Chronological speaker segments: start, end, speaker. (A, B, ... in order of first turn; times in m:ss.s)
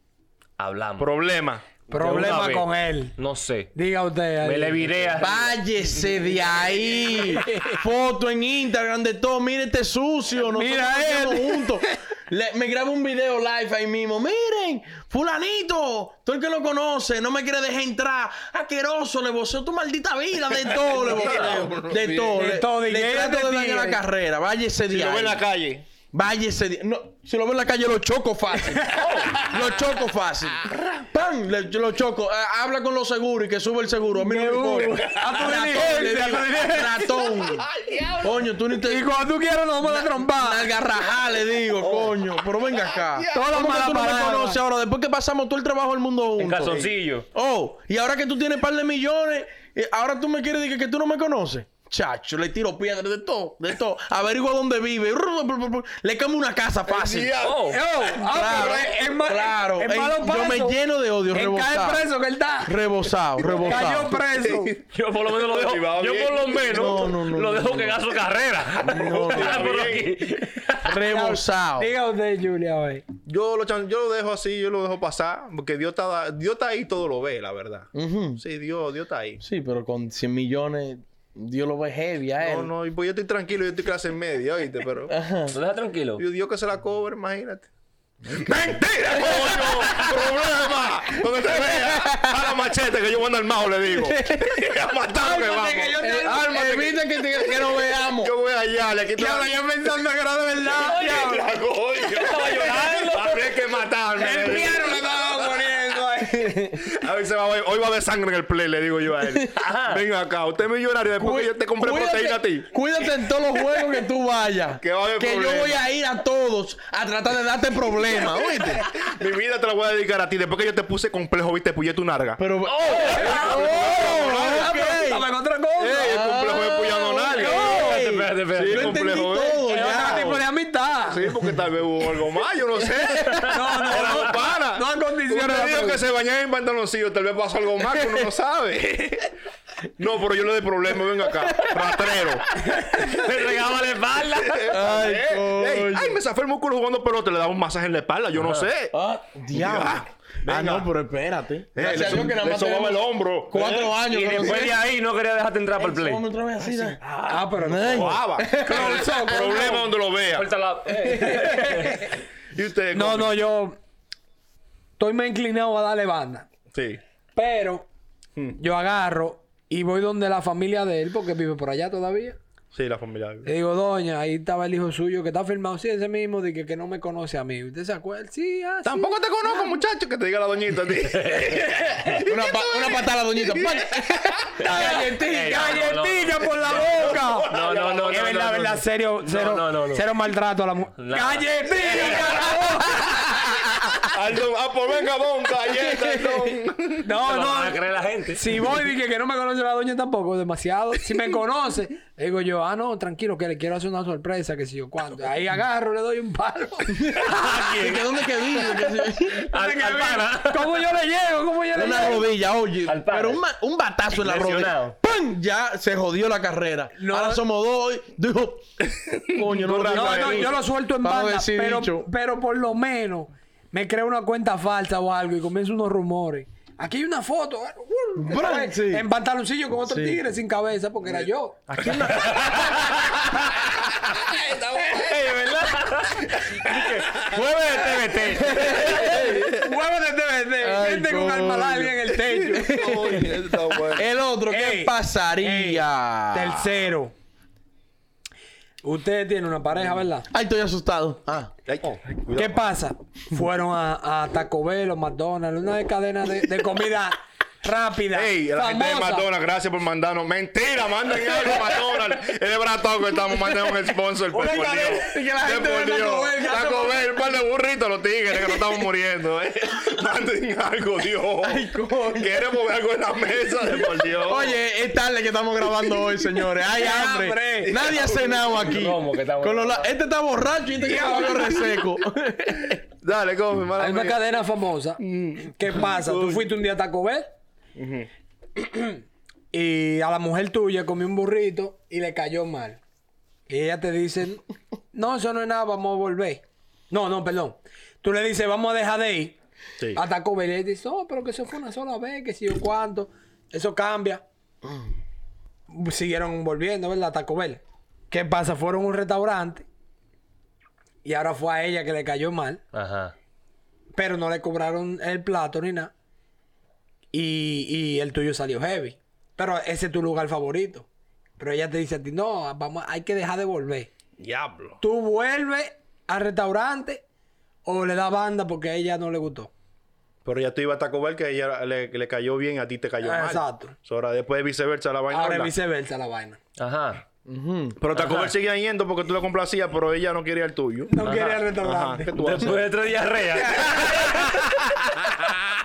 0:00.6-0:01.1 A
0:01.0-0:02.4 B
0:01.9-0:03.7 A
0:01.9-0:03.2 C
0:03.8-0:05.0 C
0:04.4-0:05.6 A
0:05.2-0:25.4 D
0:07.4-0:07.7 C
0:10.5-0:11.8 C
0:20.8-0:22.4 B
0:21.0-0:21.7 A
0:22.3-0:24.0 C
0:24.9-0:25.8 B
0:26.1-0:37.7 D
0:28.9-0:29.5 A
0:34.2-0:37.2 C
0:37.4-0:38.5 B
0:38.2-0:39.0 D
0:38.8-0:40.7 C
0:39.8-0:57.3 D
0:42.9-0:43.5 B
0:43.3-0:44.6 C
0:46.4-0:47.3 A
0:56.9-0:57.8 B
0:57.4-0:57.8 A
0:57.7-1:00.8 C
0:58.2-1:02.1 D
1:01.3-1:02.8 C
1:02.7-1:04.2 D
1:03.4-1:07.0 B
1:03.4-1:04.7 C
1:04.9-1:11.0 A
1:06.7-1:08.0 D
1:08.8-1:09.7 D
1:09.0-1:10.2 B
1:10.8-1:11.9 D
1:11.1-1:13.0 C
1:13.3-1:19.4 B
1:17.9-1:18.4 D
1:19.4-1:22.7 D
1:22.4-1:25.1 B
1:25.1-1:25.6 D
1:25.5-1:26.2 A
1:26.2-1:27.7 B
1:28.3-1:36.9 B
1:29.2-1:29.8 D
1:31.4-1:32.5 D
1:34.2-1:36.9 C
1:36.0-1:38.3 D
1:38.2-1:39.5 B
1:39.2-1:41.5 C
1:40.8-1:41.4 A
1:40.9-1:45.3 B
1:42.1-1:43.6 A
1:42.6-1:43.1 C
1:44.2-1:46.9 C
1:46.3-1:46.9 D
1:47.0-1:52.7 B
1:49.6-1:50.0 A
1:51.2-1:58.8 D
1:54.8-1:55.8 B
1:58.9-2:02.4 B
2:02.4-2:05.3 D
2:02.6-2:03.9 A
2:03.0-2:04.8 B
2:03.2-2:06.2 C
2:05.8-2:07.8 B
2:05.9-2:10.4 D
2:07.0-2:08.0 C
2:07.7-2:09.0 A
2:08.5-2:10.2 B
2:09.7-2:11.3 C
2:11.1-2:19.3 B
2:13.2-2:14.4 A
2:13.5-2:16.0 C
2:20.0-2:22.5 B
2:21.5-2:22.0 D
2:22.8-2:23.0 C
2:22.9-2:24.8 A
2:24.3-2:28.9 B
2:24.7-2:26.2 D
2:28.4-2:28.7 A
2:28.9-2:34.8 D
2:29.5-2:30.9 B
2:31.8-2:33.8 B
2:33.5-2:36.2 A
2:35.8-2:37.0 D
2:37.2-2:39.9 C
2:37.6-2:39.2 D
2:37.9-2:40.5 B
2:40.3-2:42.1 A
2:41.1-2:41.5 D
2:41.3-2:42.1 C
2:42.5-2:43.4 B
2:42.9-2:43.8 C
2:45.0-2:46.5 C
2:46.7-2:47.0 B
2:47.4-2:47.9 C
2:48.6-2:52.4 C
2:52.7-2:53.5 B
2:53.4-2:59.7 C
2:58.8-3:04.6 B
3:01.1-3:02.2 A
3:02.3-3:05.8 D
3:04.6-3:10.0 A
3:04.6-3:07.5 C
3:06.6-3:08.5 B
3:08.1-3:14.1 C
3:11.0-3:12.6 A
3:14.0-3:17.1 B
3:17.0-3:17.8 C
3:17.2-3:18.4 A
3:18.3-3:27.6 C
3:26.9-3:29.5 D
3:27.3-3:30.8 A
3:29.4-3:32.3 C
3:31.7-3:38.7 D
3:32.8-3:33.4 A
3:34.1-3:35.0 A
3:37.0-3:37.4 C
3:38.8-3:40.5 B
3:39.3-3:42.1 D
3:39.9-3:51.6 C
3:48.2-3:49.1 D
3:49.9-3:50.2 D
3:51.7-3:52.7 D
3:51.7-3:52.9 B
3:52.1-3:53.1 A
3:53.9-3:57.7 B
3:54.9-3:59.1 A
3:58.3-3:59.6 D
3:58.4-3:59.7 B
3:58.8-4:03.3 C
4:00.6-4:03.3 D
4:02.3-4:04.1 B
4:03.9-4:06.7 D
4:04.5-4:07.1 C
4:08.8-4:10.3 C
4:10.3-4:11.5 D
4:11.7-4:12.6 B
4:12.3-4:19.3 C
4:18.1-4:34.6 B
4:24.3-4:25.3 C
4:25.0-4:27.0 D
4:26.4-4:26.9 C
4:31.4-4:32.4 D
4:34.1-4:42.8 D
4:36.6-4:37.8 C
4:37.7-4:38.8 B
4:38.5-4:39.9 A
4:40.8-4:41.8 C
4:43.0-4:44.2 B
4:43.8-4:47.3 C
4:45.0-4:46.5 B
4:47.8-4:48.1 B
4:48.6-4:49.0 C
4:49.5-4:52.8 C
4:53.5-4:54.4 C
4:54.9-4:59.4 C
4:59.9-5:04.2 C
5:05.7-5:09.7 C
5:11.0-5:12.6 C
5:12.7-5:13.2 A
5:14.0-5:15.9 C
5:17.1-5:20.9 C
5:21.4-5:23.9 C
5:24.2-5:24.8 B
5:24.8-5:27.0 C
5:27.7-5:29.5 C
5:30.2-5:35.5 B
5:33.0-5:33.8 C
5:35.1-5:36.4 C
5:36.6-5:37.0 A
5:37.3-5:37.8 D
5:37.8-5:40.9 B
5:37.9-5:38.4 A
5:40.9-5:42.1 C
5:41.0-5:41.5 A
5:41.6-5:42.6 B
5:42.1-5:44.6 A
5:43.8-5:44.1 C